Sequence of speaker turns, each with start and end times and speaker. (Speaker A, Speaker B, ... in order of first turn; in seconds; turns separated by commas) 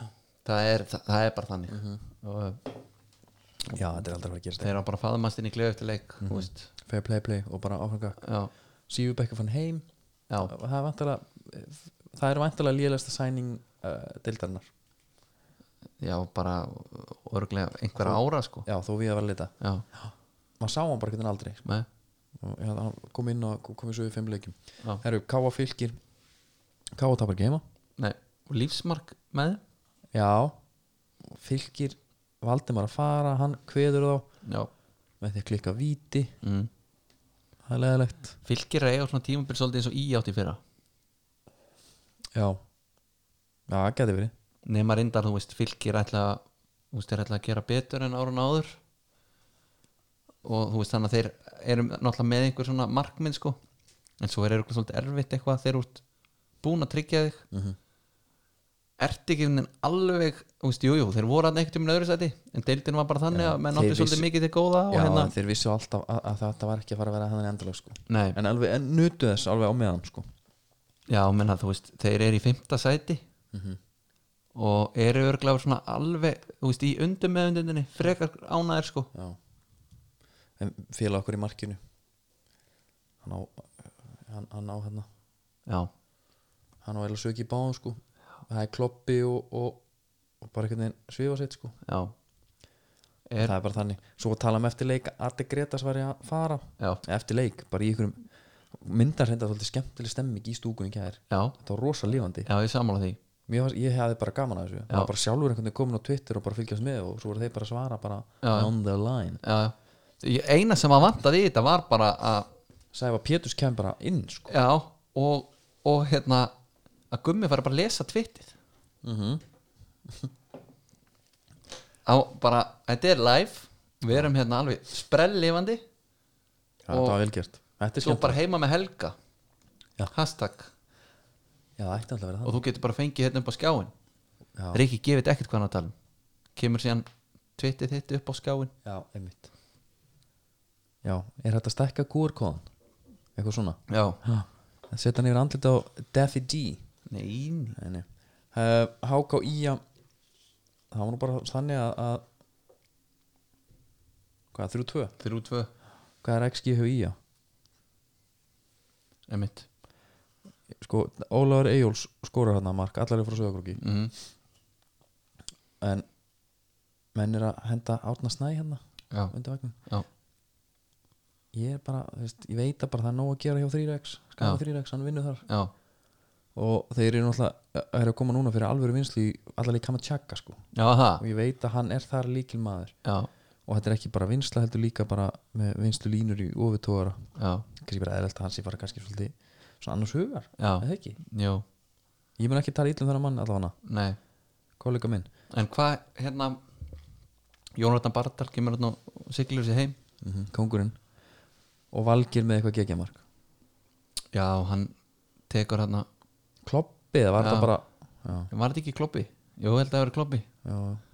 Speaker A: 0.5-2.6, Speaker B: 1.7-2.0, Speaker B: 3.7-4.7, Speaker A: 4.6-6.7, Speaker B: 6.2-8.2, Speaker A: 8.2-8.5, Speaker B: 8.9-9.9, Speaker B: 10.4-14.7, Speaker A: 16.0-18.7, Speaker B: 18.0-21.6, Speaker A: 19.6-19.9, Speaker B: 22.4-26.0, Speaker B: 26.9-27.6, Speaker A: 28.0-29.6, Speaker B: 30.1-30.6, Speaker B: 31.2-34.3, Speaker A: 34.4-34.7, Speaker B: 35.2-36.4, Speaker A: 36.4-36.7, Speaker B: 37.6-38.4, Speaker A: 38.4-40.6, Speaker B: 42.3-42.6, Speaker B: 43.7-44.3, Speaker A: 44.6-48.8, Speaker A: 50.4-53.6, Speaker A: 54.2-56.0, Speaker A: 56.6-57.4, Speaker A: 59.0-65.3, Speaker B: 63.3-64.3, Speaker B: 64.9-70.3, Speaker A: 68.1-68.4, Speaker A: 71.1-73.2, Speaker B: 73.5-73.8, Speaker A: 74.5-79.1, Speaker B: 80.6-81.8, Speaker B: 83.2-85.1, Speaker B: 86.8-89.8, Speaker B: 90.4-91.8, Speaker A: 91.8-92.1, Speaker A: 93.3-93.5, Speaker B: 93.4-102.5, Speaker A: 101.3-101.5, Speaker A: 102.5-103.2, Speaker B: 103.5-109.4, Speaker A: 108.4-108.7, Speaker A: 109.4-112.5, Speaker B: 112.9-114.5, Speaker A: 114.5-116.5, Speaker A: 117.1-118.5, Speaker B: 119.0-119.4, Speaker A: 122.1-125.8, Speaker B: 126.9-128.4, Speaker A: 126.9-127.2, Speaker A: 128.0-129.2, Speaker A: 130.1-130.7, Speaker B: 131.8-132.6, Speaker A: 132.4-133.9, Speaker B: 134.6-134.8, Speaker A: 134.7-135.9, Speaker A: 136.6-138.7, Speaker B: 138.8-139.5, Speaker B: 141.0-142.7, Speaker B: 143.3-146.8, Speaker A: 143.9-144.2, Speaker A: 147.1-147.8, Speaker B: 147.8-149.8, Speaker B: 150.9-152.2, Speaker B: 154.5-155.1, Speaker A: 155.2-155.7, Speaker B: 156.2-157.2, Speaker A: 159.3-159.7, Speaker B: 160.8-163.8, Speaker A: 163.8-164.1, Speaker B: 165.8-166.1, Speaker B: 167.2-169.8, Speaker B: 171.5-175.4, Speaker A: 175.5-175.7, Speaker B: 176.6-180.6, Speaker A: 180.8-181.2, Speaker B: 181.2-182.9, Speaker A: 183.1-183.3, Speaker B: 183.7-191.2, Speaker A: 187.4-187.7, Speaker A: 190.6-191.6, Speaker B: 192.4-193.7, Speaker A: 193.8-194.2, Speaker B: 194.8-195.3, Speaker A: 195.5-196.6, Speaker A: 197.8-200.0, Speaker B: 200.2-201.0, Speaker B: 201.9-203.2, Speaker A: 204.3-204.9, Speaker A: 205.5-206.1, Speaker B: 206.7-208.5, Speaker A: 207.4-207.7, Speaker A: 208.5-210.5, Speaker B: 210.6-211.0